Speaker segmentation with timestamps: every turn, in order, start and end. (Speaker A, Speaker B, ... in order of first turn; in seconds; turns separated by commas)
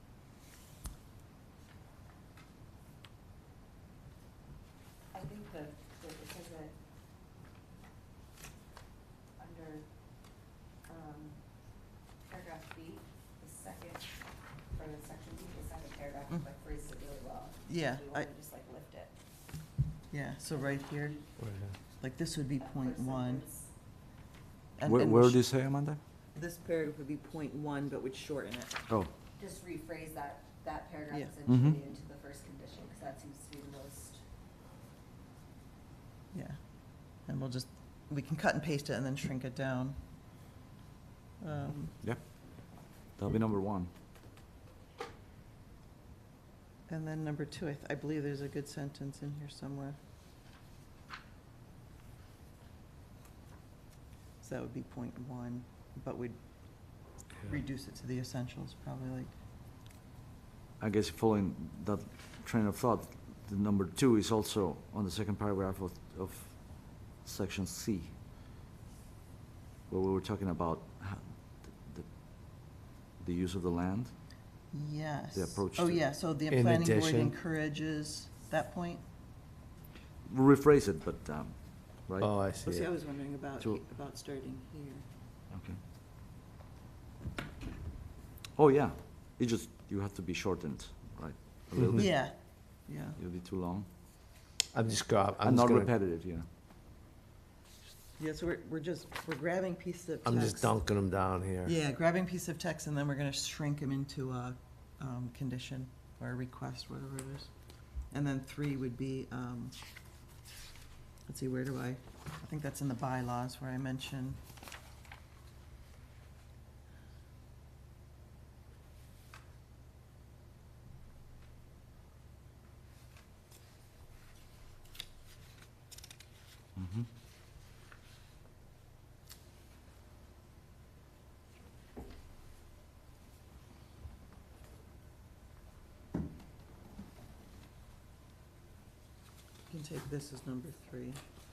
Speaker A: 5.1-6.7, Speaker A: 9.4-9.8, Speaker A: 10.9-11.4, Speaker A: 12.2-14.1, Speaker A: 14.7-19.1, Speaker B: 17.6-18.3, Speaker B: 20.1-21.2, Speaker A: 20.6-21.3, Speaker C: 21.4-21.7, Speaker B: 22.0-23.5, Speaker A: 22.7-23.7, Speaker B: 24.8-25.4, Speaker D: 24.8-26.0, Speaker B: 26.3-28.9, Speaker A: 29.4-34.2, Speaker D: 31.4-31.8, Speaker B: 36.3-40.0, Speaker B: 41.4-42.0, Speaker D: 42.0-43.9, Speaker B: 46.9-50.0, Speaker B: 54.4-59.3, Speaker D: 60.8-68.1, Speaker D: 69.9-74.1, Speaker B: 74.7-79.0, Speaker D: 75.3-76.0, Speaker C: 76.5-77.3, Speaker D: 80.2-82.3, Speaker C: 82.2-82.9, Speaker B: 82.6-85.0, Speaker D: 85.5-85.8, Speaker D: 88.5-92.2, Speaker B: 92.0-93.2, Speaker D: 93.2-93.9, Speaker C: 94.7-95.9, Speaker D: 95.4-96.5, Speaker B: 98.2-100.8, Speaker C: 100.2-101.7, Speaker B: 101.6-107.5, Speaker B: 108.1-109.7, Speaker B: 111.2-114.4, Speaker D: 126.8-127.1, Speaker B: 139.7-141.2